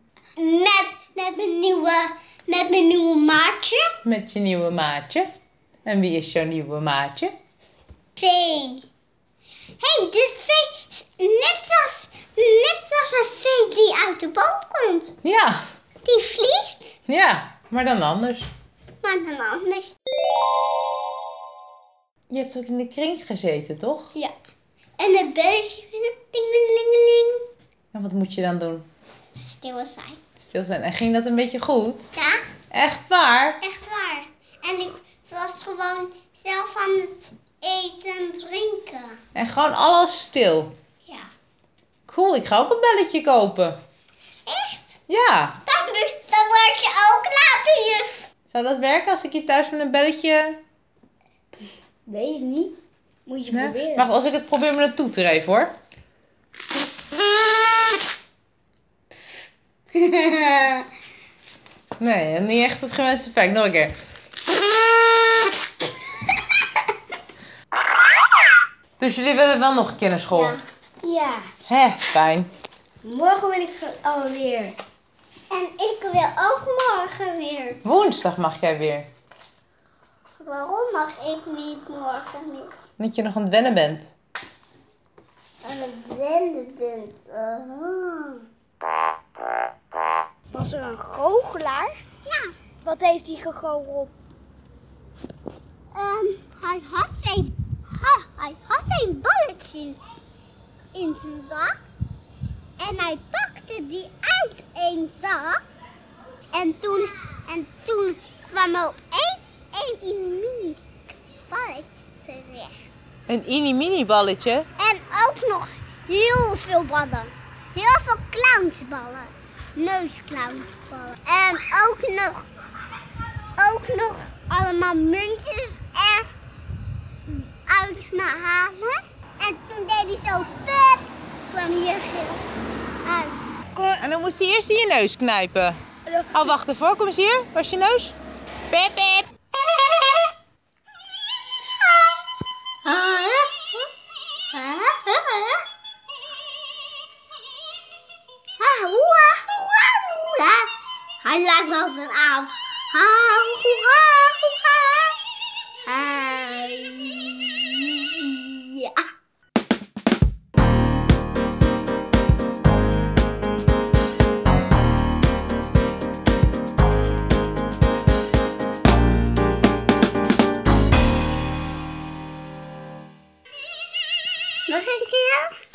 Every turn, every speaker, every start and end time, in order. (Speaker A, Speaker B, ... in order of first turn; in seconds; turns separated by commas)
Speaker A: 0.4-3.9, Speaker B: 4.1-5.3, Speaker B: 5.8-7.3, Speaker A: 8.2-8.9, Speaker A: 9.8-15.1, Speaker B: 15.2-15.7, Speaker A: 16.1-16.9, Speaker B: 17.1-18.5, Speaker A: 19.0-19.9, Speaker B: 22.3-24.1, Speaker A: 25.0-27.4, Speaker B: 27.9-28.9, Speaker A: 29.4-30.2, Speaker B: 30.4-32.1, Speaker A: 32.1-32.4, Speaker B: 32.7-33.6, Speaker A: 33.6-39.2, Speaker B: 39.4-40.8, Speaker B: 42.1-43.8, Speaker A: 44.5-45.0, Speaker B: 45.1-45.6, Speaker A: 45.6-48.3, Speaker B: 48.5-50.6, Speaker C: 52.1-54.1, Speaker B: 53.5-55.8, Speaker A: 59.9-60.8, Speaker B: 62.0-64.0, Speaker B: 69.0-70.5, Speaker A: 70.3-70.6, Speaker C: 71.0-71.5, Speaker B: 71.7-72.5, Speaker C: 73.0-74.8, Speaker A: 75.5-77.8, Speaker B: 77.9-79.1, Speaker A: 80.4-82.7, Speaker B: 83.0-84.1, Speaker A: 85.6-88.4, Speaker C: 90.5-92.0, Speaker A: 92.3-92.5, Speaker C: 92.8-94.2, Speaker A: 95.9-100.0, Speaker A: 100.9-101.8, Speaker A: 102.8-105.6, Speaker A: 106.5-110.8, Speaker A: 111.5-112.7, Speaker B: 113.3-114.7, Speaker A: 114.8-122.5, Speaker A: 123.6-126.3, Speaker A: 127.7-132.5, Speaker A: 133.1-133.5, Speaker C: 133.7-134.0, Speaker B: 134.0-135.8, Speaker C: 136.1-136.5, Speaker B: 136.3-138.2, Speaker B: 138.7-139.3, Speaker A: 141.8-142.1, Speaker A: 142.8-143.8, Speaker A: 144.5-145.6, Speaker A: 148.6-150.7, Speaker A: 151.2-155.2, Speaker A: 155.9-159.0, Speaker A: 174.7-175.5